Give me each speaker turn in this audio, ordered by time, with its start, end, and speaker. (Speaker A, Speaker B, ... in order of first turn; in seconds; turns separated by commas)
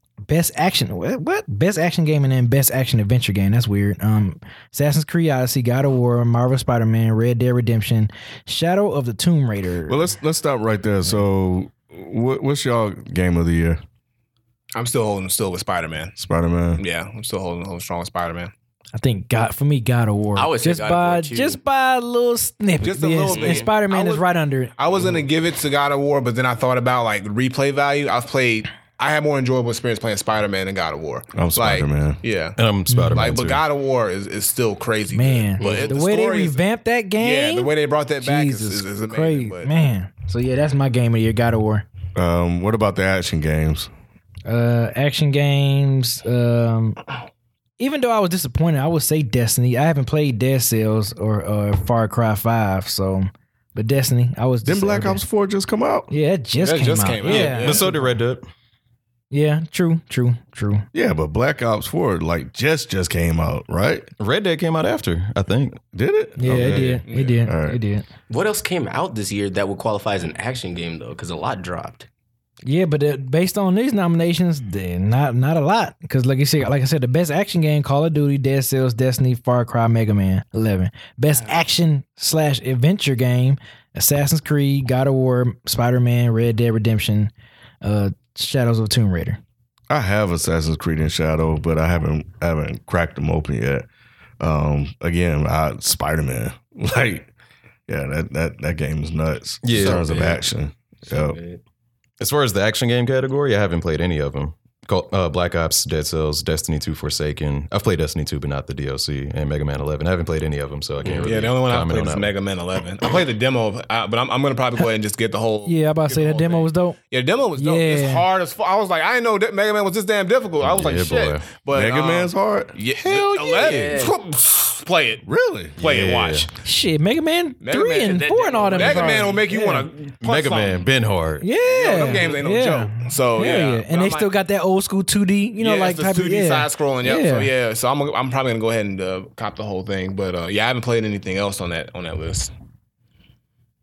Speaker A: 0.2-10.1, Speaker B: 9.9-13.8, Speaker C: 14.7-16.2, Speaker B: 16.2-16.8, Speaker C: 16.8-18.5, Speaker A: 18.9-25.1, Speaker D: 20.4-21.6, Speaker C: 22.8-24.2, Speaker D: 23.3-23.7, Speaker C: 24.8-32.6, Speaker B: 31.3-32.2, Speaker E: 32.6-33.6, Speaker A: 32.9-33.4, Speaker C: 33.1-36.6, Speaker A: 35.1-41.8, Speaker C: 37.2-39.7, Speaker B: 42.1-43.9, Speaker A: 44.5-47.0, Speaker A: 47.8-55.2, Speaker B: 54.6-56.1, Speaker A: 56.1-58.1, Speaker C: 56.6-58.0, Speaker E: 57.2-58.5, Speaker A: 59.3-60.9, Speaker B: 60.9-64.1, Speaker E: 64.2-65.8, Speaker B: 65.9-67.8, Speaker A: 66.4-68.0, Speaker C: 67.1-67.4, Speaker D: 68.3-72.1, Speaker A: 72.6-87.3, Speaker A: 87.8-89.4, Speaker B: 89.9-93.9, Speaker B: 94.4-97.3, Speaker B: 97.9-101.4, Speaker E: 99.6-100.4, Speaker D: 99.9-100.3, Speaker D: 101.1-101.6, Speaker E: 102.2-112.3, Speaker D: 111.0-111.3, Speaker C: 111.2-125.2, Speaker A: 115.7-117.0, Speaker A: 117.6-118.2, Speaker E: 120.6-121.4, Speaker B: 121.7-123.8, Speaker D: 123.5-124.2, Speaker B: 125.2-125.8, Speaker C: 125.8-126.5, Speaker E: 125.8-126.5, Speaker A: 126.6-129.9, Speaker C: 127.6-130.9, Speaker D: 128.0-129.4, Speaker E: 130.2-131.4, Speaker A: 131.4-137.5, Speaker C: 131.6-134.3, Speaker C: 135.6-142.5